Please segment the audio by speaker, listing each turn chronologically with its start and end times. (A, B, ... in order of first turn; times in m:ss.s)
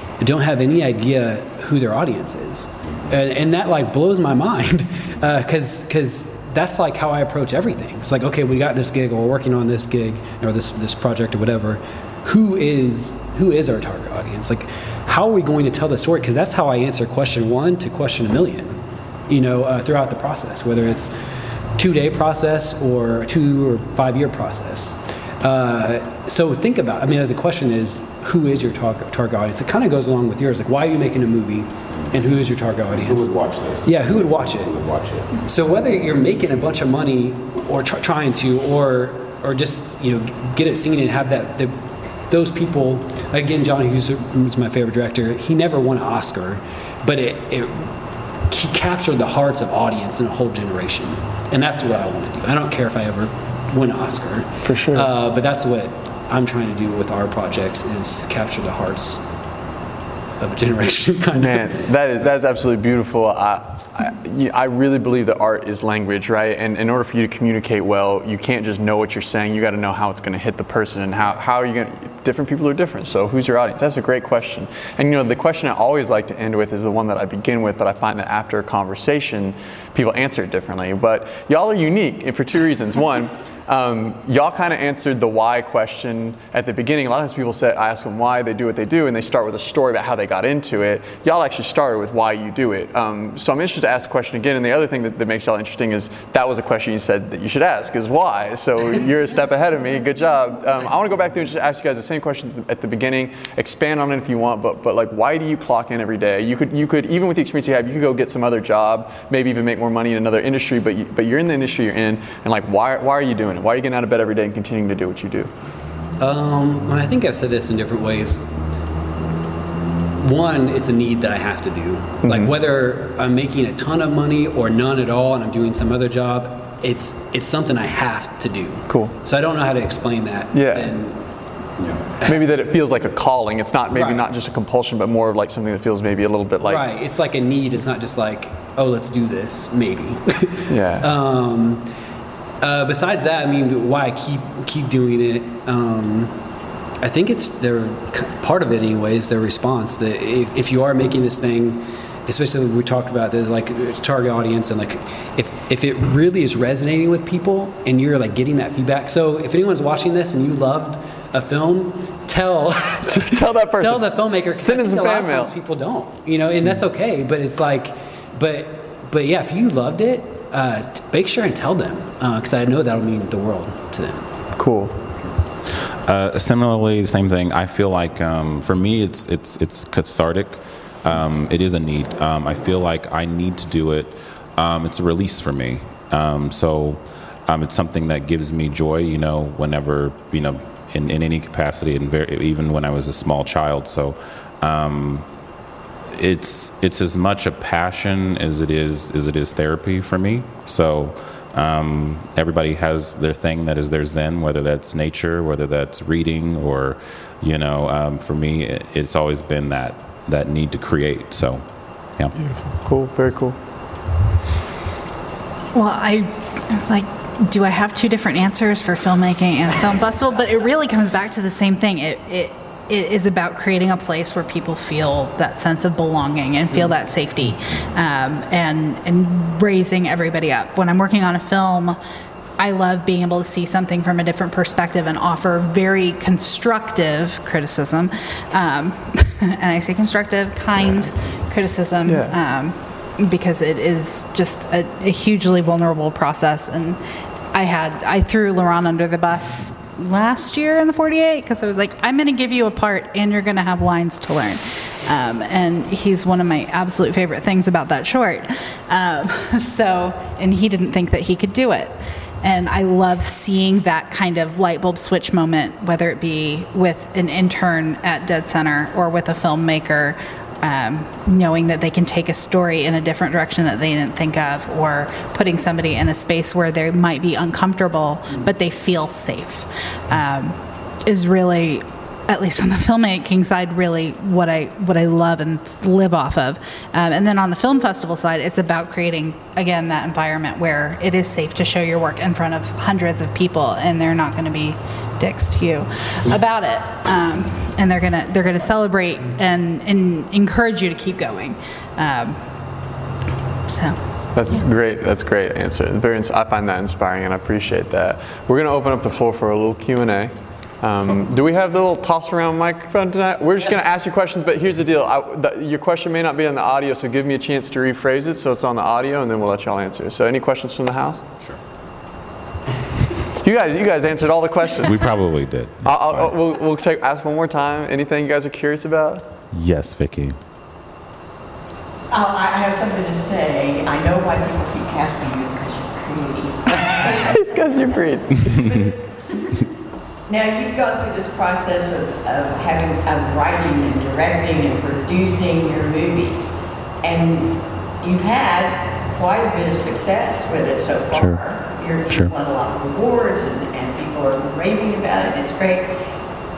0:00.2-0:21.2 A
0:21.8-0:34.8 A
0:33.0-0:35.3 B
0:35.4-0:47.9 A
0:48.5-0:59.2 A
0:54.6-0:55.1 C
1:00.4-1:01.8 A
1:01.4-1:55.5 C
1:56.2-1:58.4 A
2:00.2-2:11.3 A
2:02.2-2:02.5 C
2:08.9-2:09.1 C
2:10.5-2:10.9 C
2:11.8-2:12.4 A
2:12.2-2:16.9 C
2:13.9-2:14.2 A
2:16.6-2:21.9 A
2:20.7-2:21.1 C
2:22.6-2:26.4 A
2:27.0-2:54.3 A
2:43.1-2:45.5 C
2:54.6-2:55.0 C
2:56.0-3:15.3 B
3:16.1-3:32.4 B
3:32.4-3:33.6 C
3:35.7-3:52.0 D
3:52.6-4:07.0 D
4:02.0-4:02.4 C
4:07.5-5:02.5 D
5:03.7-5:04.0 D
5:04.4-5:21.3 C
5:23.3-5:25.2 C
5:24.8-5:26.3 B
5:25.8-5:29.3 C
5:29.5-5:30.4 B
5:32.1-5:39.6 E
5:36.8-5:38.7 C
5:40.3-5:46.4 E
5:47.0-5:56.0 E
5:51.1-5:51.4 B